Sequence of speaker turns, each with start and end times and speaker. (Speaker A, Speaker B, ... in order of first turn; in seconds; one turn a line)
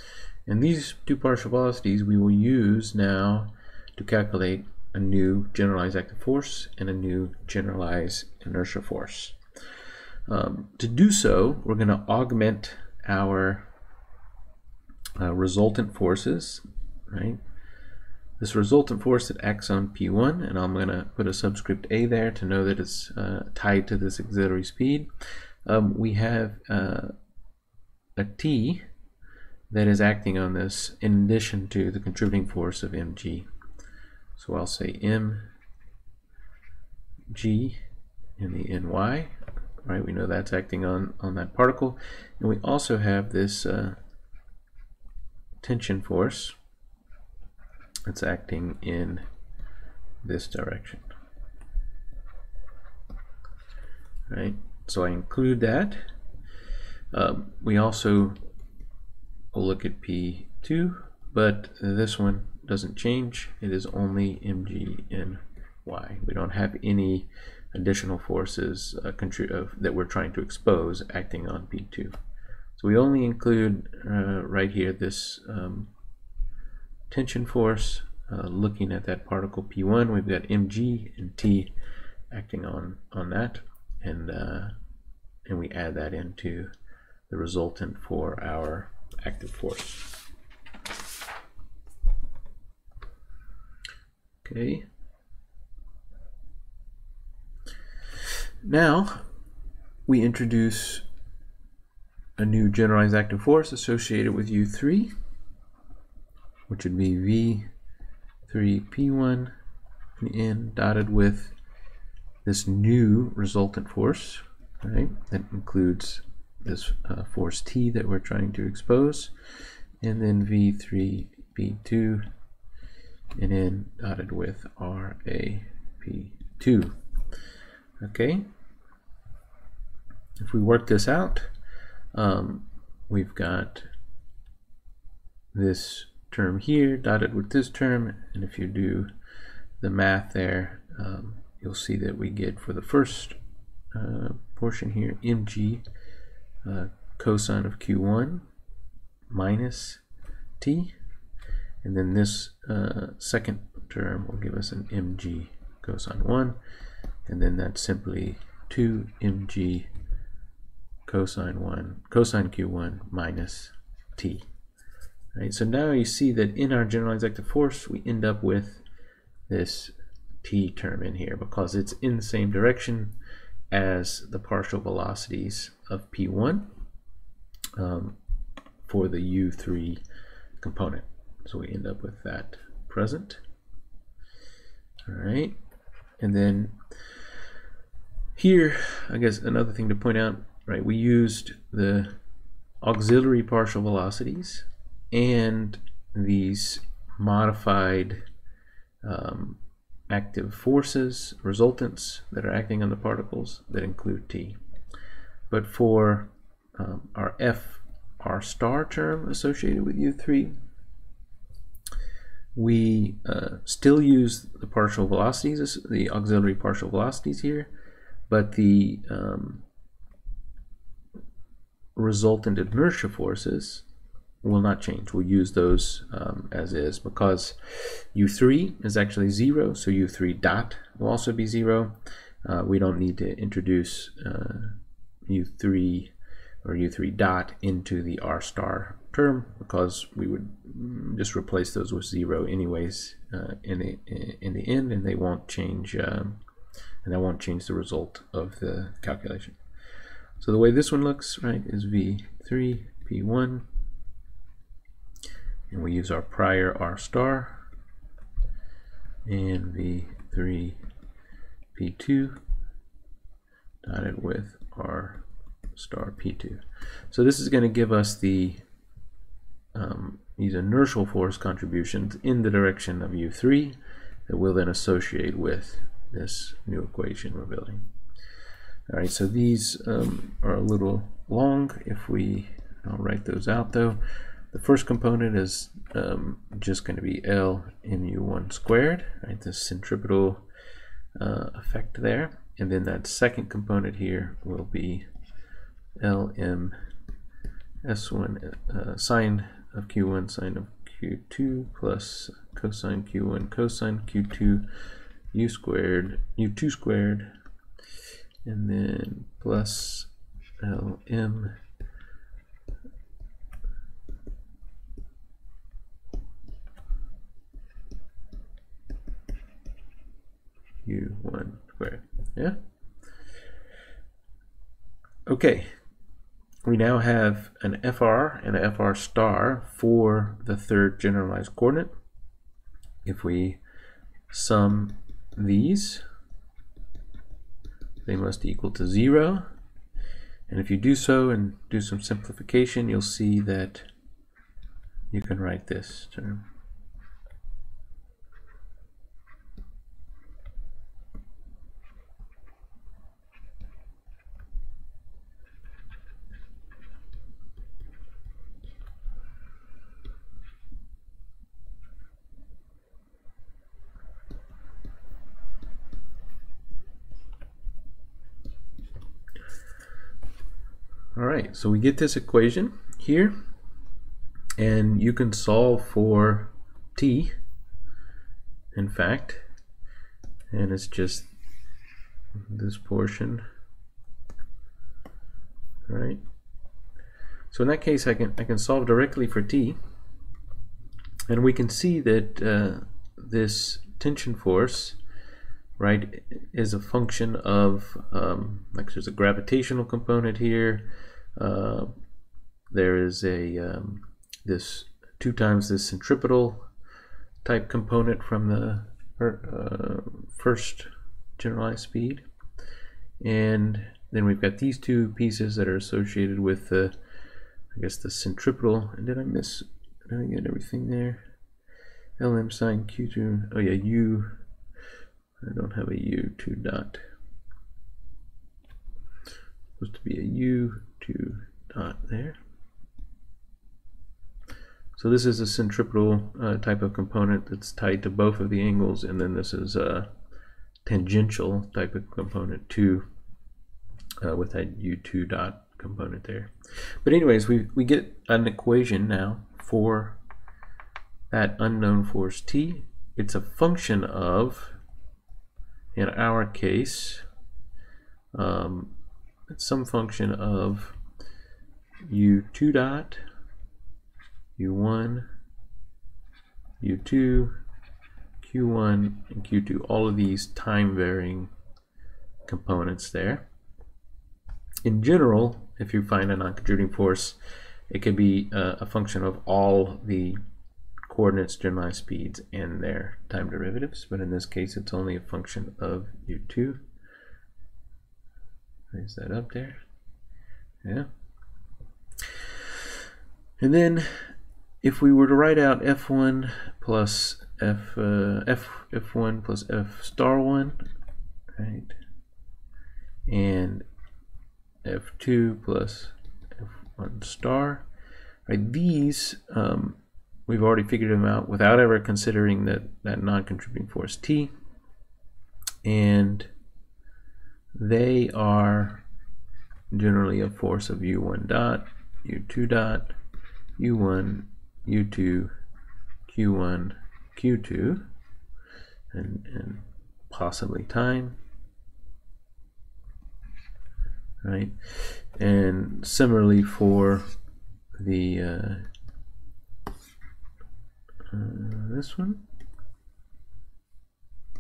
Speaker A: 0.5-9.4
Speaker A: 10.3-13.7
Speaker A: 15.2-17.4
Speaker A: 18.4-25.1
Speaker A: 25.6-27.1
Speaker A: 28.2-28.9
Speaker A: 29.7-33.5
Speaker A: 34.4-35.5
Speaker A: 37.3-37.8
Speaker A: 38.4-44.0
Speaker A: 45.6-46.6
Speaker A: 48.1-49.2
Speaker A: 50.2-51.1
Speaker A: 54.3-56.0
Speaker A: 57.1-58.4
Speaker A: 59.5-72.2
Speaker A: 72.8-75.9
Speaker A: 77.1-81.7
Speaker A: 82.3-84.8
Speaker A: 85.5-86.7
Speaker A: 87.3-90.2
Speaker A: 94.4-94.9
Speaker A: 98.6-99.3
Speaker A: 100.1-101.0
Speaker A: 102.4-105.1
Speaker A: 106.7-107.7
Speaker A: 108.5-109.5
Speaker A: 110.2-111.5
Speaker A: 112.5-119.3
Speaker A: 120.0-122.2
Speaker A: 123.4-127.0
Speaker A: 128.0-128.4
Speaker A: 130.4-131.5
Speaker A: 132.1-133.9
Speaker A: 135.5-139.1
Speaker A: 139.8-143.4
Speaker A: 143.9-145.8
Speaker A: 146.6-148.5
Speaker A: 149.3-150.0
Speaker A: 150.6-150.9
Speaker A: 151.8-156.6
Speaker A: 157.3-159.9
Speaker A: 161.1-164.5
Speaker A: 165.3-168.8
Speaker A: 169.5-173.2
Speaker A: 173.7-176.7
Speaker A: 177.8-178.2
Speaker A: 178.8-180.0
Speaker A: 180.6-183.4
Speaker A: 185.1-185.6
Speaker A: 186.2-186.8
Speaker A: 188.4-192.2
Speaker A: 192.8-198.2
Speaker A: 199.0-204.6
Speaker A: 205.5-210.6
Speaker A: 212.6-217.7
Speaker A: 218.3-219.7
Speaker A: 222.0-223.8
Speaker A: 224.4-234.8
Speaker A: 235.3-236.1
Speaker A: 236.6-246.4
Speaker A: 247.0-249.6
Speaker A: 250.4-253.7
Speaker A: 255.7-257.7
Speaker A: 259.3-260.8
Speaker A: 261.8-262.4
Speaker A: 263.8-268.6
Speaker A: 269.7-277.8
Speaker A: 278.9-290.4
Speaker A: 291.2-295.1
Speaker A: 296.0-296.8
Speaker A: 297.8-304.7
Speaker A: 305.3-307.3
Speaker A: 308.4-310.1
Speaker A: 310.6-311.6
Speaker A: 320.9-322.6
Speaker A: 325.3-325.8
Speaker A: 326.6-331.9
Speaker A: 333.1-333.6
Speaker A: 334.3-336.0
Speaker A: 338.0-339.5
Speaker A: 340.5-343.9
Speaker A: 345.1-346.4
Speaker A: 371.1-373.4
Speaker A: 374.6-377.4
Speaker A: 378.7-379.4
Speaker A: 380.5-381.3
Speaker A: 382.4-383.4
Speaker A: 385.9-386.2
Speaker A: 387.5-389.8
Speaker A: 391.3-395.0
Speaker A: 395.8-401.9
Speaker A: 402.7-406.7
Speaker A: 407.4-412.2
Speaker A: 413.2-416.9
Speaker A: 417.7-421.2
Speaker A: 422.2-424.3
Speaker A: 425.4-427.0
Speaker A: 429.8-432.4
Speaker A: 435.0-440.1
Speaker A: 440.9-443.1
Speaker A: 444.2-446.5
Speaker A: 447.0-450.2
Speaker A: 451.3-454.8
Speaker A: 455.9-457.2
Speaker A: 458.3-458.9
Speaker A: 459.5-461.0
Speaker A: 462.1-463.2
Speaker A: 464.6-465.3
Speaker A: 466.8-467.6
Speaker A: 468.4-471.5
Speaker A: 472.5-473.5
Speaker A: 474.9-477.4
Speaker A: 477.9-480.4
Speaker A: 481.1-486.8
Speaker A: 488.9-489.8
Speaker A: 490.8-491.1
Speaker A: 493.6-500.8
Speaker A: 501.6-501.9
Speaker A: 503.3-503.9
Speaker A: 504.8-507.9
Speaker A: 508.5-514.5
Speaker A: 515.8-516.5
Speaker A: 517.8-519.0
Speaker A: 519.9-523.1
Speaker A: 523.8-525.5
Speaker A: 526.3-528.0
Speaker A: 529.1-531.4
Speaker A: 534.4-537.3
Speaker A: 538.0-538.9
Speaker A: 541.3-542.4